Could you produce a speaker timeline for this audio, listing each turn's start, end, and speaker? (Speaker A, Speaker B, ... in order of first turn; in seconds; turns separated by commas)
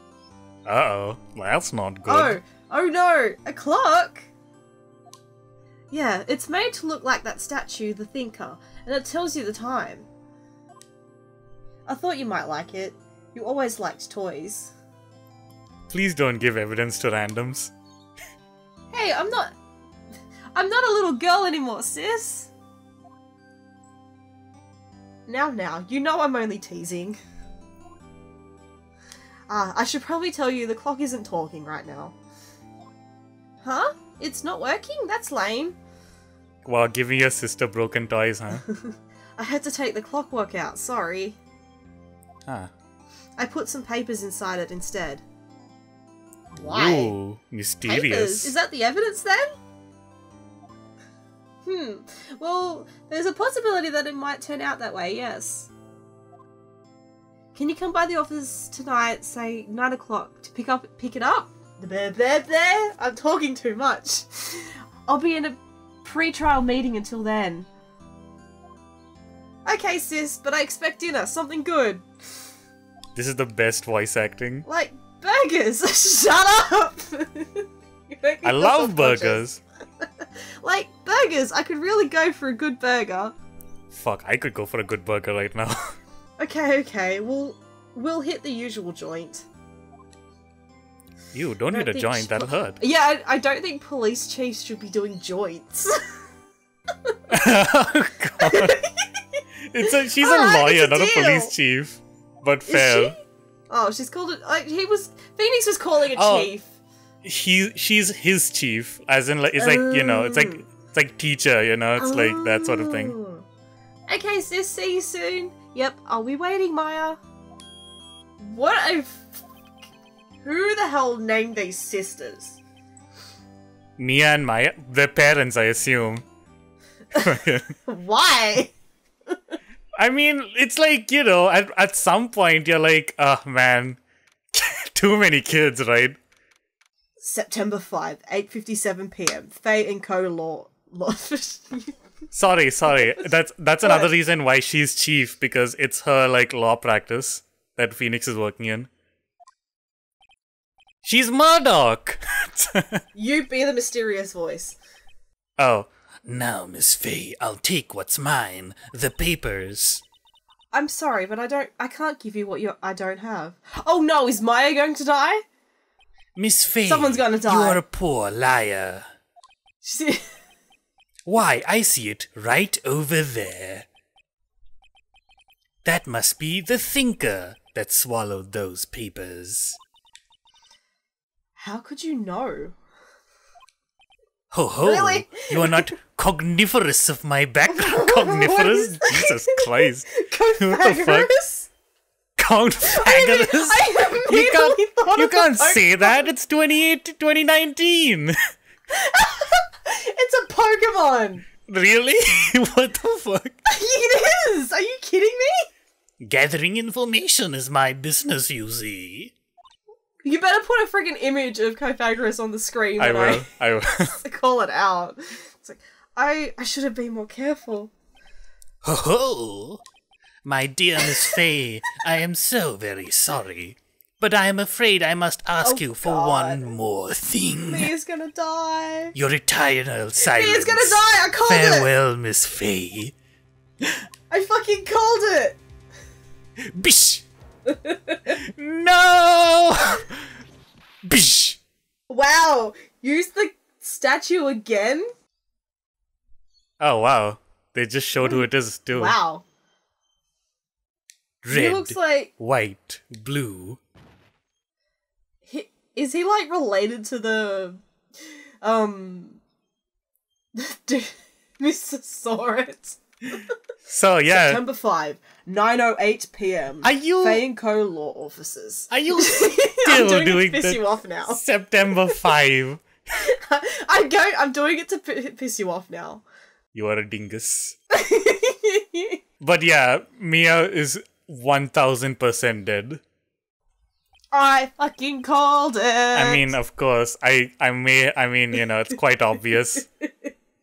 Speaker A: 0.7-2.4, Speaker B: 2.1-4.3, Speaker B: 5.9-10.1, Speaker B: 11.9-14.7, Speaker A: 15.9-17.7, Speaker B: 18.9-19.5, Speaker B: 20.6-22.5, Speaker B: 25.3-27.2, Speaker B: 29.5-32.1, Speaker B: 33.6-35.8, Speaker A: 36.6-38.7, Speaker B: 38.6-41.4, Speaker A: 42.5-42.7, Speaker B: 43.4-45.2, Speaker A: 46.6-48.5, Speaker B: 46.6-47.1, Speaker B: 47.9-49.5, Speaker B: 51.6-55.7, Speaker B: 57.5-67.7, Speaker B: 69.7-72.0, Speaker A: 73.2-74.7, Speaker B: 74.7-79.4, Speaker A: 78.4-79.6, Speaker B: 80.0-83.4, Speaker A: 83.9-86.0, Speaker B: 86.4-89.5, Speaker A: 91.3-92.8, Speaker B: 91.7-96.0, Speaker A: 97.3-98.8, Speaker B: 98.4-99.2, Speaker A: 99.7-103.2, Speaker B: 99.9-101.5, Speaker B: 102.7-103.2, Speaker B: 103.7-106.7, Speaker A: 106.1-106.5, Speaker A: 107.2-113.2, Speaker B: 109.5-110.6, Speaker B: 112.0-113.5, Speaker B: 114.1-117.2, Speaker B: 118.4-119.4, Speaker B: 120.4-122.6, Speaker A: 124.0-126.2, Speaker A: 127.1-127.7, Speaker B: 127.8-128.7, Speaker A: 130.0-134.0, Speaker A: 134.5-136.2, Speaker B: 137.2-141.9, Speaker A: 142.3-148.9, Speaker B: 142.9-143.2, Speaker B: 143.8-144.1, Speaker A: 151.0-153.0, Speaker B: 153.1-154.8, Speaker A: 155.6-160.0, Speaker B: 160.7-165.4, Speaker A: 166.4-169.1, Speaker B: 166.9-167.8, Speaker B: 169.8-170.3, Speaker A: 171.3-173.9, Speaker A: 175.8-179.8, Speaker B: 181.6-182.8, Speaker A: 184.5-191.3, Speaker B: 184.8-185.9, Speaker B: 187.7-191.7, Speaker A: 192.4-198.4, Speaker B: 192.9-196.2, Speaker B: 198.9-201.5, Speaker A: 201.7-203.6, Speaker B: 203.7-205.7, Speaker A: 206.2-209.3, Speaker B: 210.2-213.5, Speaker A: 213.0-214.2, Speaker B: 214.0-217.9, Speaker A: 218.8-219.8, Speaker A: 220.4-227.9, Speaker B: 221.0-221.4, Speaker B: 225.6-226.7, Speaker B: 227.7-229.2, Speaker A: 229.1-233.2, Speaker B: 230.2-231.9, Speaker B: 234.3-235.6, Speaker A: 236.7-237.3, Speaker B: 237.7-238.3, Speaker A: 238.3-240.2, Speaker A: 241.0-241.6, Speaker B: 242.1-245.1, Speaker A: 246.8-249.2, Speaker B: 248.2-249.4, Speaker A: 251.4-253.8, Speaker B: 251.5-252.3, Speaker B: 255.4-259.4, Speaker B: 260.5-263.5, Speaker A: 263.9-264.6, Speaker B: 264.3-271.4, Speaker A: 266.8-267.4, Speaker A: 268.9-272.8, Speaker B: 273.2-276.2, Speaker A: 276.7-277.8, Speaker B: 277.9-279.2, Speaker A: 279.4-283.0, Speaker B: 284.3-286.6, Speaker A: 286.1-289.9, Speaker B: 290.0-290.3